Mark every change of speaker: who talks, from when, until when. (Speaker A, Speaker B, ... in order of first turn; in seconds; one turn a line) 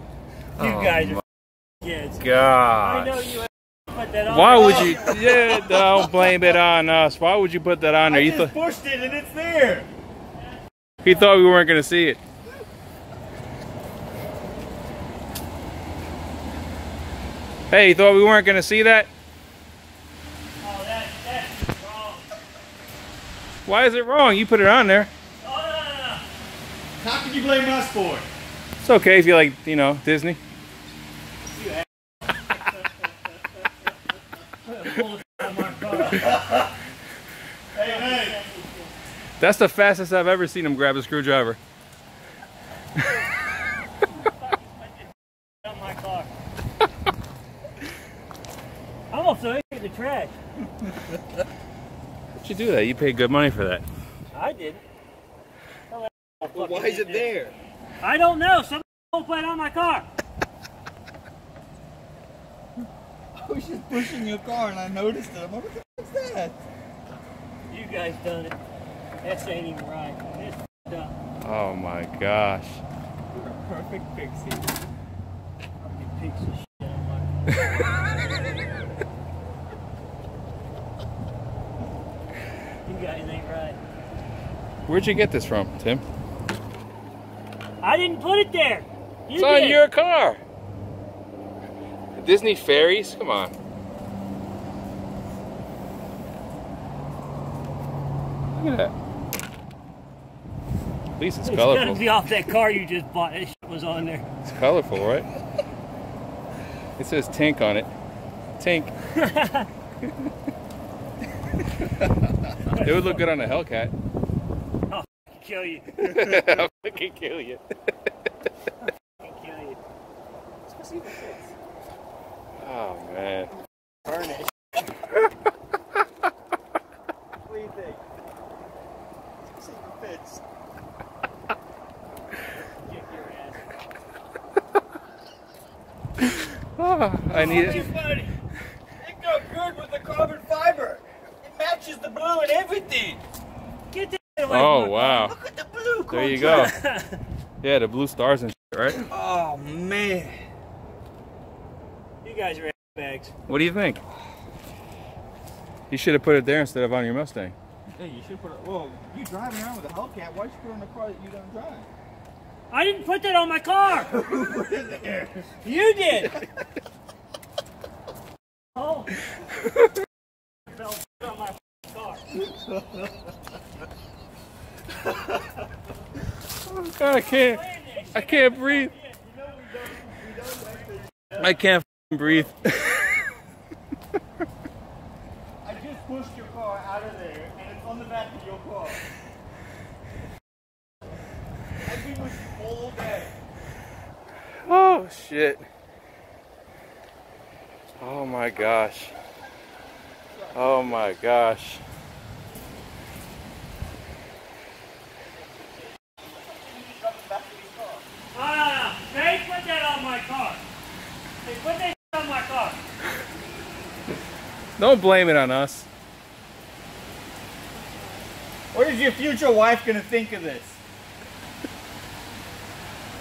Speaker A: 0.6-1.2
Speaker B: 0.6-1.2
Speaker A: 1.8-5.2
Speaker B: 2.2-3.3
Speaker B: 4.3-8.6
Speaker C: 4.6-5.6
Speaker C: 8.1-9.9
Speaker A: 10.4-11.3
Speaker B: 11.0-12.2
Speaker B: 17.7-19.1
Speaker A: 20.6-22.3
Speaker B: 23.6-25.1
Speaker A: 25.4-26.2
Speaker C: 27.0-28.3
Speaker B: 28.8-30.4
Speaker A: 34.6-36.4
Speaker C: 36.2-36.5
Speaker C: 37.7-38.4
Speaker A: 37.8-38.9
Speaker B: 39.4-41.6
Speaker A: 44.1-45.0
Speaker A: 45.6-46.3
Speaker A: 49.1-50.3
Speaker B: 52.4-53.8
Speaker A: 54.3-54.8
Speaker A: 55.9-57.4
Speaker C: 56.5-57.5
Speaker A: 58.0-60.1
Speaker C: 63.4-66.6
Speaker A: 67.7-68.6
Speaker A: 69.2-71.1
Speaker B: 71.4-72.8
Speaker C: 73.3-74.8
Speaker A: 75.8-77.4
Speaker A: 82.8-83.8
Speaker B: 84.9-86.0
Speaker A: 87.8-89.8
Speaker B: 89.4-90.4
Speaker B: 92.2-93.5
Speaker B: 98.5-98.9
Speaker B: 101.2-102.1
Speaker A: 101.4-104.3
Speaker B: 104.5-105.3
Speaker B: 107.0-107.9
Speaker B: 108.6-108.9
Speaker A: 109.2-109.7
Speaker A: 112.7-113.2
Speaker B: 112.7-113.9
Speaker A: 114.9-116.1
Speaker B: 116.0-117.6
Speaker A: 119.2-119.8
Speaker C: 120.7-121.5
Speaker B: 122.6-123.5
Speaker C: 127.5-128.0
Speaker C: 129.5-130.4
Speaker A: 132.8-133.6
Speaker B: 136.8-137.9
Speaker A: 137.3-137.9
Speaker C: 137.3-138.3
Speaker C: 139.0-143.2
Speaker A: 143.9-145.3
Speaker B: 144.5-145.3
Speaker C: 145.2-146.7
Speaker B: 146.1-146.8
Speaker A: 146.3-147.2
Speaker B: 147.6-149.1
Speaker C: 149.1-150.4
Speaker A: 152.2-153.3
Speaker B: 153.5-154.0
Speaker B: 155.9-157.5
Speaker C: 157.9-161.9
Speaker A: 162.7-164.1
Speaker C: 163.9-165.5
Speaker A: 165.6-166.4
Speaker A: 168.8-169.1
Speaker A: 170.7-172.3
Speaker B: 176.7-178.9
Speaker A: 177.0-179.1
Speaker C: 179.1-181.5
Speaker B: 181.4-183.1
Speaker C: 185.6-189.0
Speaker C: 191.8-193.3
Speaker B: 194.6-195.7
Speaker B: 198.0-199.1
Speaker C: 200.4-201.0
Speaker B: 200.5-201.8
Speaker C: 206.1-208.0
Speaker A: 208.3-210.6
Speaker A: 211.4-212.8
Speaker B: 214.8-215.9
Speaker C: 218.7-220.8